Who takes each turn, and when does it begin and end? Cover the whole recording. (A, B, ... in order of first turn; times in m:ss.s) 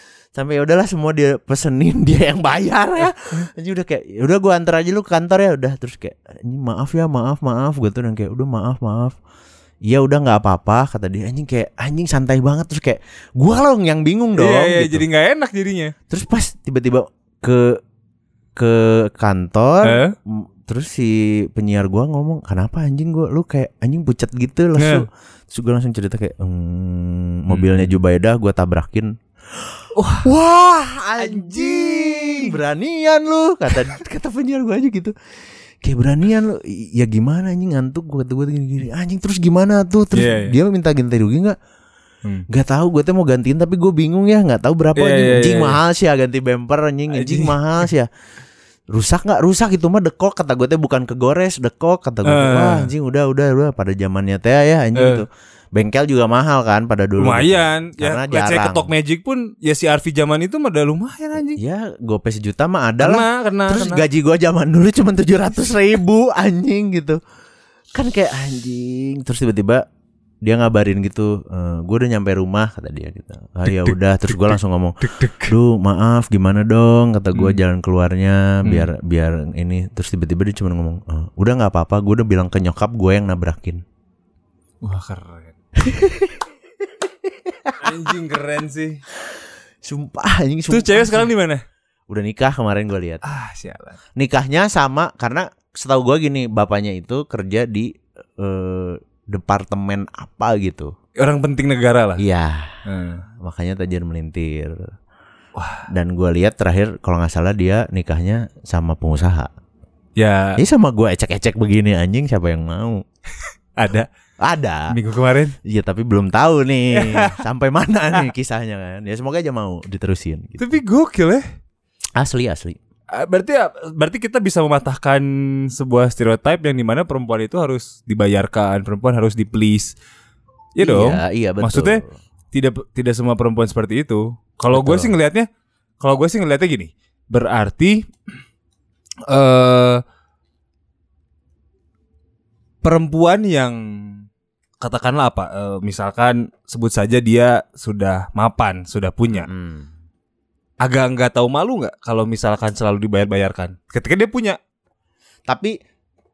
0:00.4-0:09.2 A
0:09.8-0:15.0 A
0:14.4-0:15.9 B
0:16.1-0:17.8 A
0:18.6-0:29.2 A
0:19.8-0:20.2 B
0:24.8-0:25.0 B
0:27.5-0:28.0 B
0:30.0-0:30.3 B
0:30.2-0:35.1 A
0:31.2-0:32.6 B
0:35.8-0:41.6 A
0:40.1-0:40.6 B
0:42.5-0:48.1 A
0:45.0-0:45.8 B
0:47.1-0:47.9 B
0:48.9-0:58.9 A
0:52.2-0:52.9 B
0:55.0-0:55.2 B
0:57.2-1:01.6 B
1:01.6-1:07.2 A
1:03.0-1:04.0 B
1:07.9-1:09.8 A
1:10.4-1:23.8 A
1:13.7-1:15.5 B
1:17.3-1:17.6 B
1:18.6-1:18.9 B
1:24.8-1:25.5 B
1:25.8-1:26.4 A
1:27.5-1:27.9 A
1:27.8-1:29.0 B
1:29.8-1:31.3 A
1:30.7-1:31.6 B
1:32.1-1:33.2 A
1:33.2-1:34.0 B
1:34.2-1:40.9 A
1:41.2-1:42.2 B
1:42.2-1:42.8 A
1:42.9-1:43.2 B
1:43.4-1:44.9 A
1:45.6-1:45.9 B
1:45.9-1:49.5 A
1:50.2-1:50.6 B
1:50.6-1:53.0 A
1:53.8-1:54.1 B
1:54.4-1:55.0 A
1:54.9-1:55.6 B
1:55.6-2:00.8 A
1:56.9-1:57.4 B
2:00.6-2:01.4 B
2:02.2-2:02.8 A
2:03.1-2:10.0 B
2:10.8-2:15.5 B
2:10.8-2:12.2 A
2:14.7-2:15.1 A
2:16.0-2:18.1 B
2:19.3-2:20.0 B
2:22.8-2:24.3 B
2:24.8-2:29.5 B
2:29.4-2:29.9 A
2:30.8-2:34.6 B
2:35.5-2:35.8 A